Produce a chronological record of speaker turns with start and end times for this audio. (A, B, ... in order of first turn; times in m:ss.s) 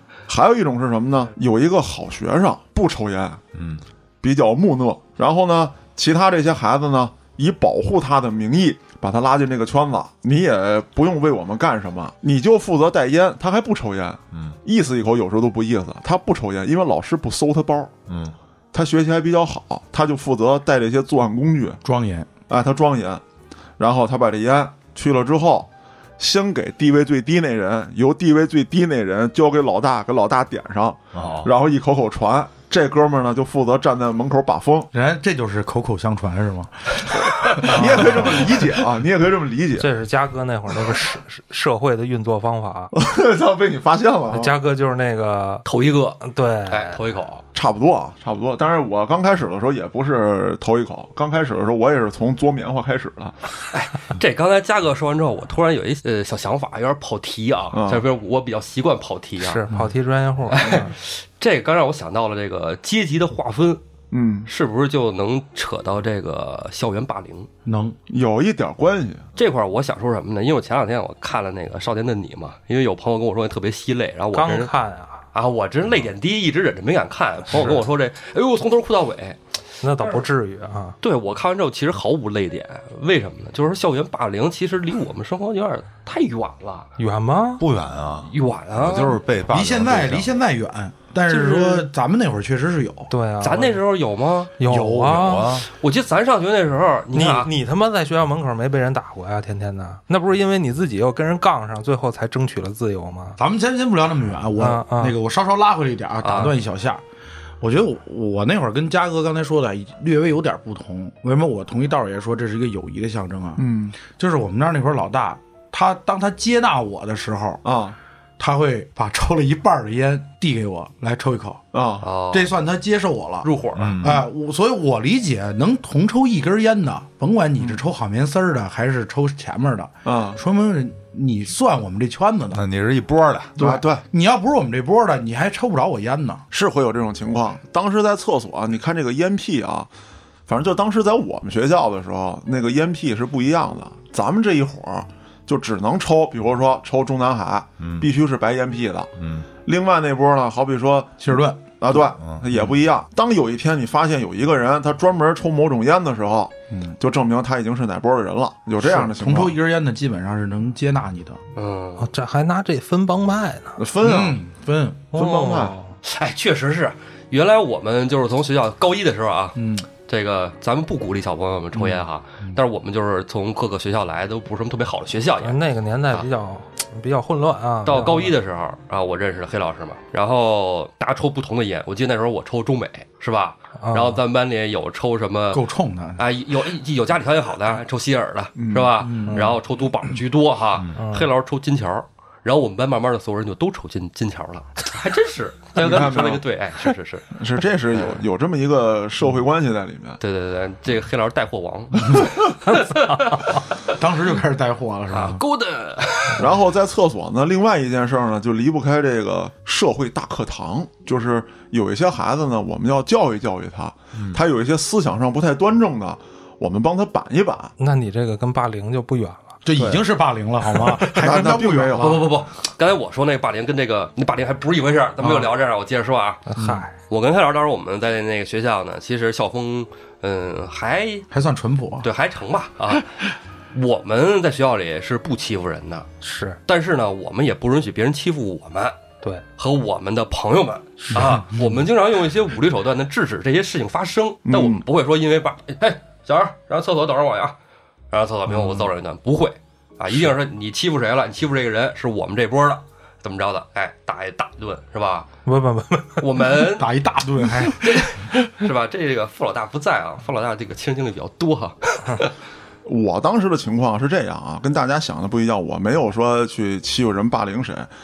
0:00.3-0:03.4 A
0:03.5-0:03.8 B
0:04.2-0:17.9 A
0:14.3-0:14.6 B
0:18.1-0:18.3 B
0:18.7-0:21.8 A
0:21.8-0:22.3 C
0:22.5-0:23.2 A
0:23.8-0:34.9 A
0:31.1-0:31.5 B
0:34.9-0:38.8 C
0:37.6-0:39.9 A
0:37.7-0:38.5 D
0:39.8-0:42.9 D
0:42.9-0:44.5 A
0:44.3-0:45.6 D
0:45.6-0:47.4 E
0:46.2-0:47.0 D
0:47.5-0:53.4 A
0:53.7-0:59.6 E
0:57.7-0:58.0 A
0:59.4-1:00.9 D
1:00.5-1:03.8 E
1:04.1-1:04.5 A
1:04.5-1:07.5 E
1:07.6-1:08.0 C
1:08.1-1:09.2 A
1:09.4-1:14.7 E
1:14.3-1:15.2 D
1:15.3-1:19.4 E
1:17.5-1:17.8 D
1:19.8-1:21.0 D
1:20.0-1:20.2 E
1:21.0-1:26.9 E
1:27.0-1:27.6 D
1:27.6-1:30.4 B
1:28.3-1:29.2 E
1:29.5-1:33.1 C
1:31.3-1:31.9 E
1:33.1-1:33.8 D
1:33.4-1:34.6 E
1:34.6-1:35.6 D
1:34.7-1:35.2 C
1:35.1-1:35.7 B
1:35.6-1:37.5 E
1:37.1-1:43.4 D
1:43.4-1:47.0 C
1:44.6-1:45.2 D
1:46.2-1:46.6 E
1:47.6-1:57.6 C
1:53.6-1:54.0 A
1:57.6-1:58.0 A
1:58.4-2:01.6 C
2:01.7-2:02.1 A
2:02.0-2:02.5 E
2:02.3-2:12.6 C
2:03.4-2:04.0 E
2:03.8-2:04.3 B
2:10.0-2:10.4 A
2:12.5-2:13.6 B
2:13.6-2:16.4 C
2:13.6-2:14.0 A
2:16.5-2:19.9 A
2:20.5-2:29.1 A
2:27.8-2:28.0 B
2:29.2-2:29.4 B
2:29.6-2:39.6 A
2:31.2-2:31.6 C
2:32.2-2:32.6 B
2:38.8-2:41.4 C
2:41.5-2:42.1 E
2:42.0-2:43.8 D
2:43.8-2:44.4 A
2:44.0-2:45.1 C
2:45.1-2:45.8 A
2:45.1-2:45.9 D
2:46.0-2:56.3 E
2:49.6-2:49.8 C
2:51.7-2:52.6 C
2:55.4-2:58.3 D
2:57.8-3:05.6 E
3:03.8-3:04.2 D
3:05.5-3:06.2 C
3:06.2-3:17.4 E
3:08.6-3:09.1 A
3:09.0-3:09.6 C
3:11.0-3:11.3 D
3:15.8-3:16.4 A
3:17.3-3:20.2 A
3:17.9-3:18.2 E
3:20.2-3:23.6 E
3:22.6-3:23.6 D
3:23.9-3:25.4 C
3:25.1-3:26.5 E
3:26.4-3:37.7 A
3:34.1-3:34.4 B
3:37.8-3:39.6 D
3:39.6-3:42.3 C
3:41.2-3:42.2 A
3:42.0-3:46.4 E
3:45.2-3:45.5 C
3:46.5-3:46.9 D
3:46.6-3:46.8 C
3:47.1-3:51.3 E
3:51.3-3:52.1 C
3:52.0-3:53.1 E
3:53.7-3:56.1 E
3:56.2-3:56.6 D
3:56.6-3:59.0 E
3:59.6-4:07.5 E
4:04.4-4:04.8 A
4:08.1-4:15.3 E
4:15.4-4:16.2 D
4:16.2-4:16.9 E
4:16.8-4:18.2 C
4:17.7-4:22.3 E
4:22.8-4:27.9 A